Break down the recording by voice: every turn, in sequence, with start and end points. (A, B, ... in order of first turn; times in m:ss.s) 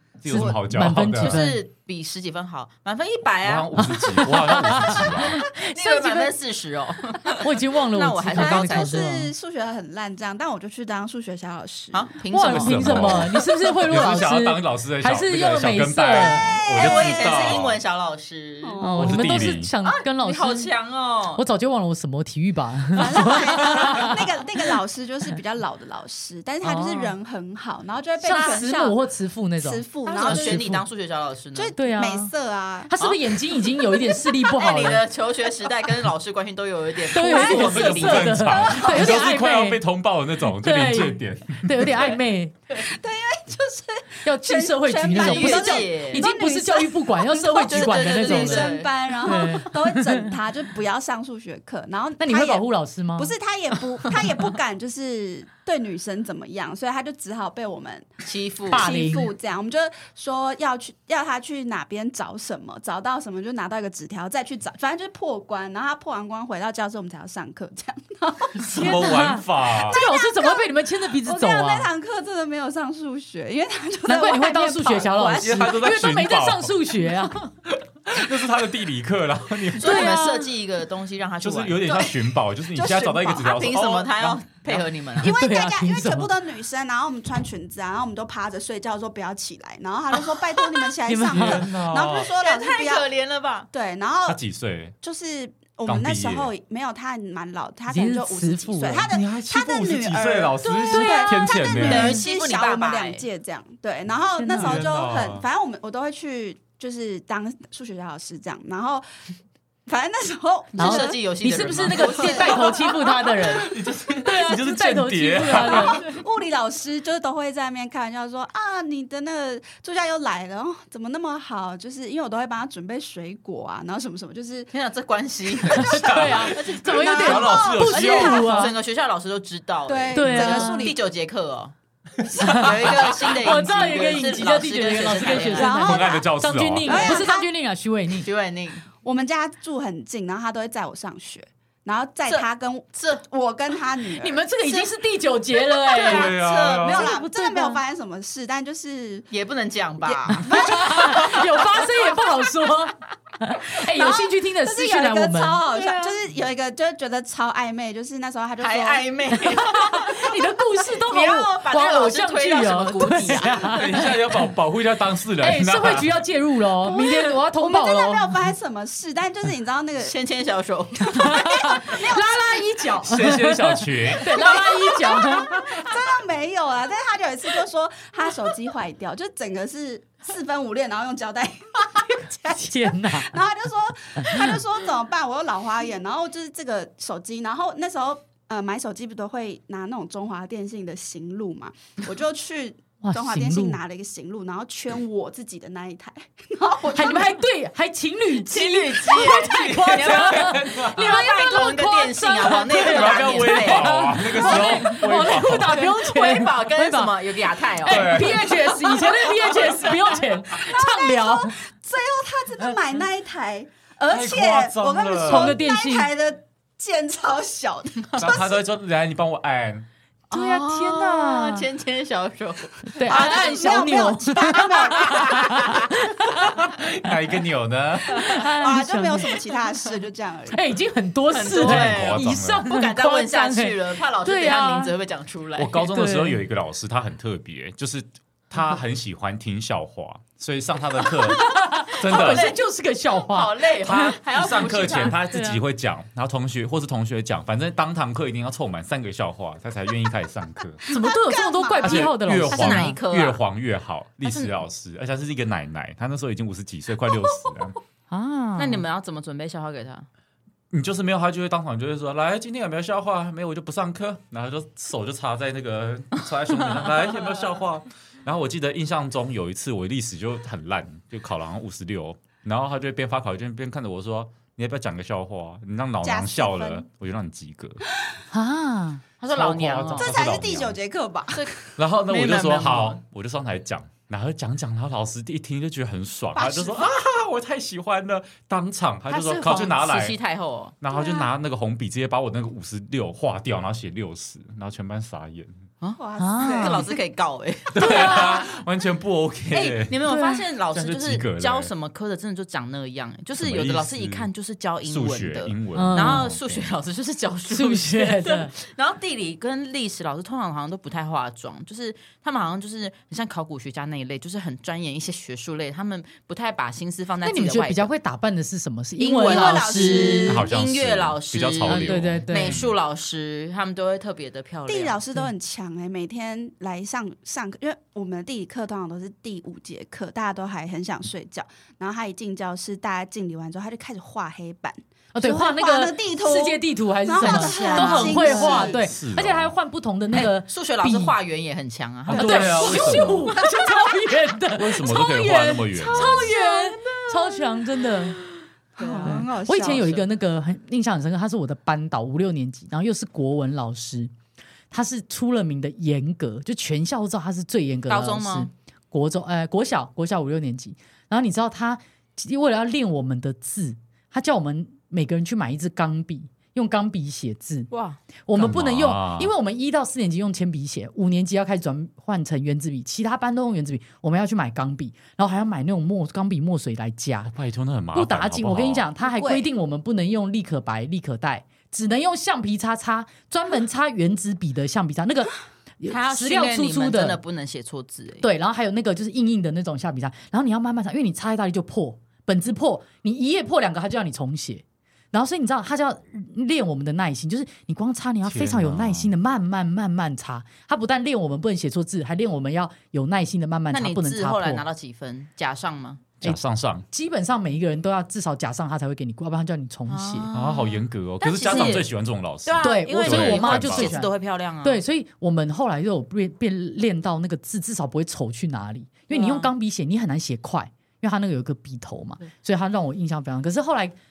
0:00.2-0:01.4 A
0:00.2-0:01.6 B
0:01.2-0:09.1 C
0:03.4-0:05.4 A
0:04.0-0:06.3 B
0:07.4-0:09.3 B
0:08.3-0:12.1 D
0:11.9-0:13.5 C
0:12.3-0:16.5 B
0:12.4-0:13.3 A
0:13.9-0:17.8 A
0:16.3-0:17.6 D
0:16.6-0:21.4 C
0:18.6-0:19.3 D
0:18.8-0:20.7 B
0:19.0-0:19.7 A
0:21.3-0:24.2 B
0:22.9-0:29.0 D
0:26.6-0:27.2 B
0:28.2-0:30.8 B
0:29.6-0:30.7 D
0:30.1-0:31.7 C
0:31.5-0:32.9 D
0:31.8-0:32.3 B
0:32.9-0:35.1 B
0:33.0-0:33.3 C
0:34.3-0:38.9 C
0:37.1-0:39.8 B
0:37.2-0:37.9 D
0:37.4-0:42.1 A
0:38.5-0:39.2 D
0:40.5-0:42.5 B
0:42.7-0:52.6 D
0:44.2-0:50.3 B
0:45.1-0:46.3 C
0:47.6-0:49.7 C
0:52.2-0:53.3 B
0:53.2-1:15.8 D
0:58.2-0:58.9 C
0:58.7-0:59.3 B
1:08.6-1:10.0 A
1:08.8-1:11.9 B
1:14.1-1:17.5 B
1:15.4-1:16.7 A
1:17.7-1:20.1 A
1:19.7-1:21.8 C
1:19.8-1:20.5 B
1:21.4-1:24.8 A
1:21.9-1:23.7 D
1:23.4-1:25.3 C
1:25.2-1:33.1 D
1:25.2-1:26.3 B
1:30.3-1:30.8 C
1:31.0-1:31.6 B
1:31.3-1:32.3 A
1:32.4-1:33.7 C
1:33.7-1:34.4 D
1:34.2-1:34.9 A
1:35.0-1:49.0 D
1:35.8-1:36.5 A
1:37.9-1:39.1 B
1:38.9-1:42.2 A
1:40.9-1:42.2 B
1:41.8-1:43.2 C
1:44.4-1:44.9 B
1:44.6-1:45.4 A
1:49.9-1:53.3 D
1:50.7-1:52.9 C
1:50.8-1:56.0 B
1:53.4-1:56.1 A
1:55.5-2:04.7 D
2:04.7-2:11.7 C
2:05.7-2:08.5 A
2:05.7-2:08.6 D
2:05.7-2:08.7 B
2:09.9-2:11.0 D
2:10.1-2:10.9 B
2:12.3-2:15.8 C
2:12.4-2:18.3 B
2:12.9-2:13.1 A
2:13.6-2:14.0 D
2:15.2-2:16.3 D
2:15.7-2:17.1 A
2:16.8-2:17.5 D
2:16.9-2:17.2 C
2:18.2-2:18.9 C
2:19.0-2:24.4 D
2:22.3-2:23.2 C
2:24.2-2:26.3 B
2:25.9-2:29.3 D
2:26.0-2:27.1 A
2:26.9-2:27.8 B
2:29.3-2:31.3 C
2:30.1-2:31.9 D
2:30.4-2:35.7 B
2:33.9-2:39.4 D
2:35.8-2:36.1 C
2:38.6-2:40.3 C
2:39.3-2:44.1 B
2:40.9-2:43.8 C
2:43.6-2:46.2 A
2:45.4-2:48.4 B
2:46.8-2:50.1 D
2:50.0-2:51.6 C
2:51.0-2:53.0 D
2:51.1-2:55.6 B
2:53.0-2:54.5 A
2:54.2-3:17.4 D
3:02.5-3:03.4 B
3:04.2-3:04.6 B
3:13.0-3:13.8 B
3:16.9-3:31.6 B
3:18.3-3:28.3 C
3:19.3-3:21.2 A
3:22.7-3:25.8 A
3:27.8-3:28.7 A
3:28.7-3:38.6 D
3:34.1-3:35.6 A
3:35.2-3:36.1 B
3:38.2-3:39.8 A
3:40.3-3:43.9 C
3:40.3-3:41.6 B
3:42.9-3:46.5 B
3:43.0-3:45.8 D
3:44.4-3:46.0 C
3:46.2-3:48.4 A
3:48.2-3:49.4 B
3:48.4-3:50.7 D
3:50.5-3:54.9 B
3:51.3-3:55.9 C
3:51.6-3:52.6 A
3:55.6-4:02.5 A
3:55.9-3:56.4 B
4:01.1-4:02.6 C
4:01.3-4:04.2 B
4:03.1-4:05.2 C
4:03.8-4:10.8 A
4:04.8-4:05.6 B
4:10.8-4:12.1 D
4:10.9-4:13.0 B
4:11.8-4:17.8 A
4:12.4-4:13.4 C
4:18.1-4:18.8 B
4:18.6-4:20.1 C
4:20.7-4:37.8 A
4:36.0-4:36.8 D
4:38.3-4:39.0 B
4:39.2-4:40.2 C
4:39.3-4:40.8 A
4:39.9-4:41.7 D
4:41.3-4:43.0 C
4:41.8-4:50.2 A
4:46.3-4:46.9 D
4:49.1-4:50.7 C
4:50.8-4:55.6 A
4:50.9-4:51.3 D
4:55.8-4:58.5 C
4:56.0-4:57.0 D
4:56.2-4:56.8 B
4:57.7-5:00.0 A
4:59.5-5:17.9 C
5:00.0-5:00.4 B
5:00.7-5:01.7 A
5:03.4-5:04.3 A
5:04.8-5:06.7 A
5:05.7-5:06.3 B
5:07.5-5:08.5 B
5:17.2-5:20.2 B
5:19.0-5:25.0 C
5:19.1-5:20.5 D
5:20.2-5:22.8 A
5:21.6-5:22.6 B
5:24.7-5:38.8 D
5:35.1-5:41.1 B
5:37.2-5:38.7 C
5:38.6-5:39.5 A
5:40.1-5:43.1 C
5:42.1-5:43.3 A
5:42.1-5:48.2 B
5:42.1-5:43.0 D
5:44.5-5:46.3 A
5:45.7-5:47.4 C
5:48.8-5:49.9 D
5:48.8-5:50.0 C
5:49.0-5:54.1 B
5:54.7-6:07.7 B
5:57.9-5:58.5 C
6:07.7-6:08.0 C
6:08.2-6:17.3 B
6:08.4-6:09.3 A
6:17.3-6:18.9 A
6:17.9-6:27.2 B
6:19.0-6:19.5 D
6:25.8-6:28.2 C
6:28.2-6:44.6 B
6:38.2-6:39.1 A
6:43.7-6:46.0 C
6:46.2-6:46.8 A
6:46.9-6:50.2 B
6:49.9-6:51.9 C
6:50.3-6:54.0 A
6:52.4-6:54.8 C
6:52.6-7:03.9 B
6:59.1-6:59.5 C